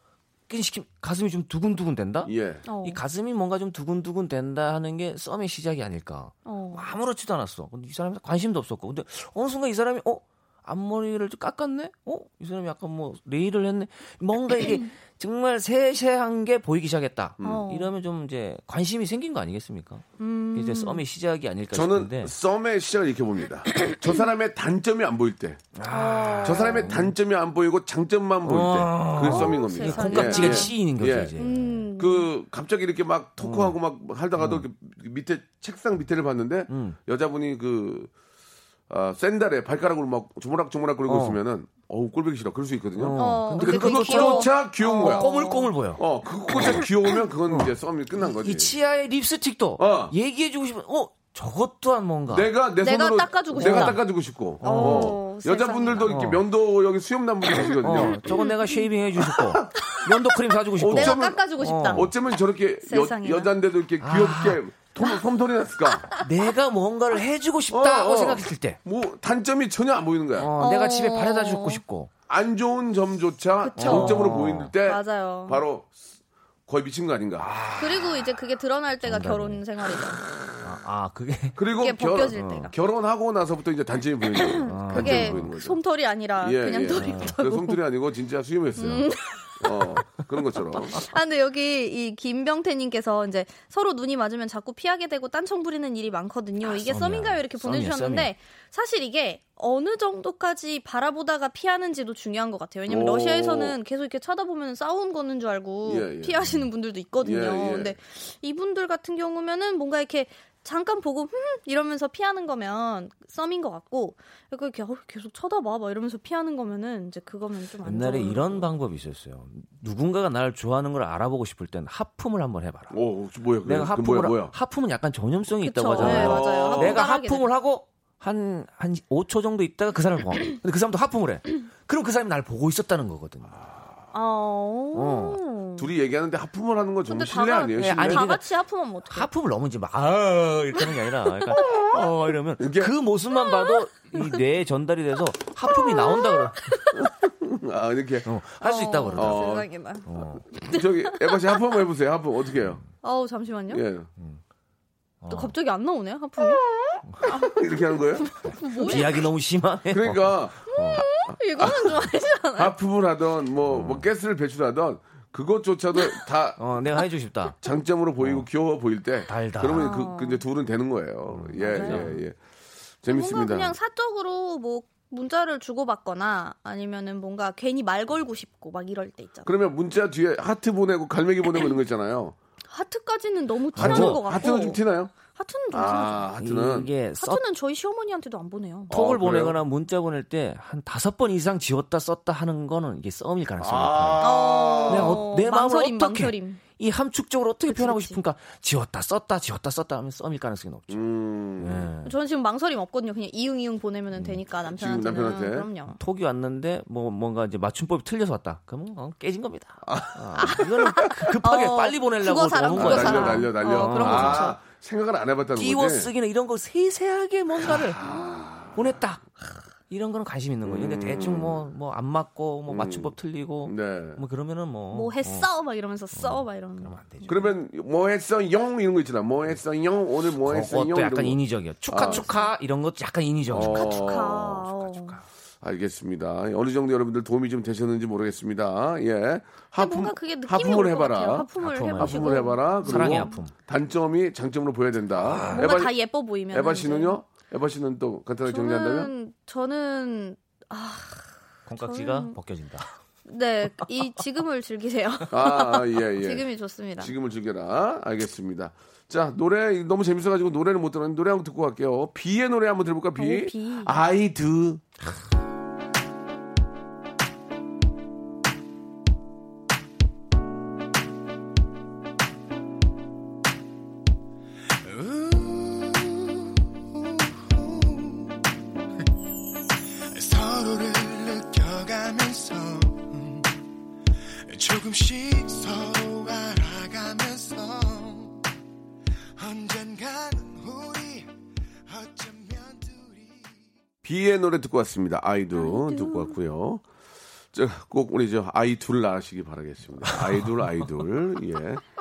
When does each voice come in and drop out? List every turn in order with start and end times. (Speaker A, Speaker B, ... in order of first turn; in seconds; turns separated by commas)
Speaker A: 0.5-2.3, Speaker B: 2.3-2.6, Speaker C: 2.7-3.0, Speaker A: 2.8-22.3, Speaker C: 6.5-6.9, Speaker B: 17.4-17.6, Speaker C: 17.4-17.9, Speaker C: 20.2-21.0, Speaker B: 21.7-25.6, Speaker A: 25.8-27.1, Speaker C: 25.9-26.9, Speaker B: 26.4-31.4, Speaker A: 28.4-31.9, Speaker C: 29.2-30.8, Speaker C: 31.4-32.3, Speaker B: 32.0-38.1, Speaker A: 33.4-33.8, Speaker A: 34.4-34.6, Speaker A: 36.7-37.0, Speaker B: 38.9-45.4, Speaker A: 41.1-41.4, Speaker A: 43.0-46.8, Speaker C: 43.2-45.7, Speaker B: 46.0-48.7, Speaker A: 48.4-52.5, Speaker B: 49.8-50.1, Speaker B: 52.3-58.2, Speaker C: 52.8-54.0, Speaker A: 53.6-54.0, Speaker A: 54.6-55.2, Speaker C: 54.6-56.2, Speaker A: 56.1-56.4, Speaker A: 57.8-62.1, Speaker C: 58.0-58.9, Speaker B: 59.3-59.8, Speaker C: 59.8-60.1, Speaker B: 60.8-66.1, Speaker C: 60.9-62.1, Speaker C: 62.9-63.5, Speaker A: 64.0-64.6, Speaker A: 66.2-68.8, Speaker B: 67.7-70.5, Speaker A: 70.4-72.1, Speaker C: 70.6-71.8, Speaker B: 72.3-75.9, Speaker C: 73.6-75.6, Speaker A: 73.8-74.7, Speaker B: 76.7-77.5, Speaker A: 77.4-78.3, Speaker C: 77.8-80.2, Speaker A: 79.0-79.6, Speaker A: 80.6-81.6, Speaker B: 81.6-85.8, Speaker C: 81.8-82.7, Speaker A: 82.3-82.7, Speaker C: 84.3-87.8, Speaker A: 84.7-85.5, Speaker B: 86.4-91.0, Speaker A: 86.9-87.3, Speaker C: 88.8-90.0, Speaker C: 90.9-118.7, Speaker A: 96.6-98.3, Speaker B: 102.9-103.8, Speaker B: 105.8-106.5, Speaker B: 107.2-108.0, Speaker A: 117.8-123.0, Speaker B: 122.9-124.5, Speaker A: 123.7-133.6, Speaker C: 125.6-127.5, Speaker B: 126.0-127.0, Speaker C: 134.1-135.9, Speaker A: 134.9-135.4, Speaker B: 135.8-138.3, Speaker C: 137.1-139.3, Speaker A: 137.8-138.4, Speaker A: 139.1-146.6, Speaker B: 142.6-142.9, Speaker C: 143.4-144.4, Speaker C: 145.7-147.1, Speaker B: 146.9-148.3, Speaker A: 148.2-149.5, Speaker C: 148.6-151.6, Speaker B: 149.2-149.7, Speaker A: 150.1-150.4, Speaker B: 150.7-152.8, Speaker C: 153.0-153.8, Speaker B: 153.7-154.1, Speaker A: 155.2-155.5, Speaker C: 155.3-156.6, Speaker B: 157.2-158.3, Speaker C: 157.2-159.3, Speaker A: 158.4-161.0, Speaker B: 159.9-166.6, Speaker C: 160.7-162.8, Speaker A: 163.7-164.1, Speaker A: 166.6-167.6, Speaker B: 167.6-172.4, Speaker A: 168.2-168.5, Speaker A: 169.3-170.0, Speaker C: 169.7-170.4, Speaker A: 171.3-172.2, Speaker C: 171.7-172.1, Speaker B: 173.0-173.7, Speaker C: 173.1-179.5, Speaker B: 179.5-182.4, Speaker C: 182.7-184.8, Speaker A: 183.7-184.4, Speaker B: 183.8-185.1, Speaker C: 185.3-186.3, Speaker B: 185.7-186.9, Speaker A: 186.4-187.4, Speaker C: 187.2-188.9, Speaker B: 188.9-189.6, Speaker A: 188.9-194.3, Speaker B: 193.6-195.2, Speaker C: 194.2-196.6, Speaker A: 194.9-201.0, Speaker C: 197.7-198.2, Speaker B: 200.9-201.9, Speaker A: 201.6-202.1, Speaker C: 202.1-206.0, Speaker B: 204.7-205.7, Speaker A: 206.0-214.6, Speaker B: 209.8-210.7, Speaker C: 210.4-214.6, Speaker B: 212.8-216.1, Speaker A: 215.6-218.2, Speaker B: 217.6-218.8, Speaker A: 218.7-219.3, Speaker A: 219.9-225.5, Speaker B: 220.6-221.6, Speaker B: 222.7-223.1, Speaker B: 223.7-224.2, Speaker C: 224.9-227.4, Speaker A: 226.1-227.5, Speaker B: 227.3-232.3, Speaker A: 230.4-234.1, Speaker C: 232.1-232.5, Speaker B: 233.5-234.7, Speaker C: 233.7-235.2, Speaker A: 234.7-235.2, Speaker B: 235.6-245.9, Speaker C: 239.8-243.4, Speaker A: 241.6-243.5, Speaker A: 245.2-245.7, Speaker C: 245.5-247.2, Speaker B: 246.5-249.1, Speaker C: 248.5-252.4, Speaker A: 251.7-252.9, Speaker C: 253.3-257.1, Speaker B: 255.3-256.4, Speaker B: 257.0-264.8, Speaker C: 263.2-264.0, Speaker D: 275.0-276.2, Speaker D: 277.4-278.3, Speaker D: 280.1-283.5, Speaker D: 284.5-288.4, Speaker D: 289.4-291.3, Speaker D: 291.9-293.6, Speaker B: 294.0-296.8, Speaker C: 295.5-296.4, Speaker B: 297.5-301.8, Speaker A: 300.1-300.6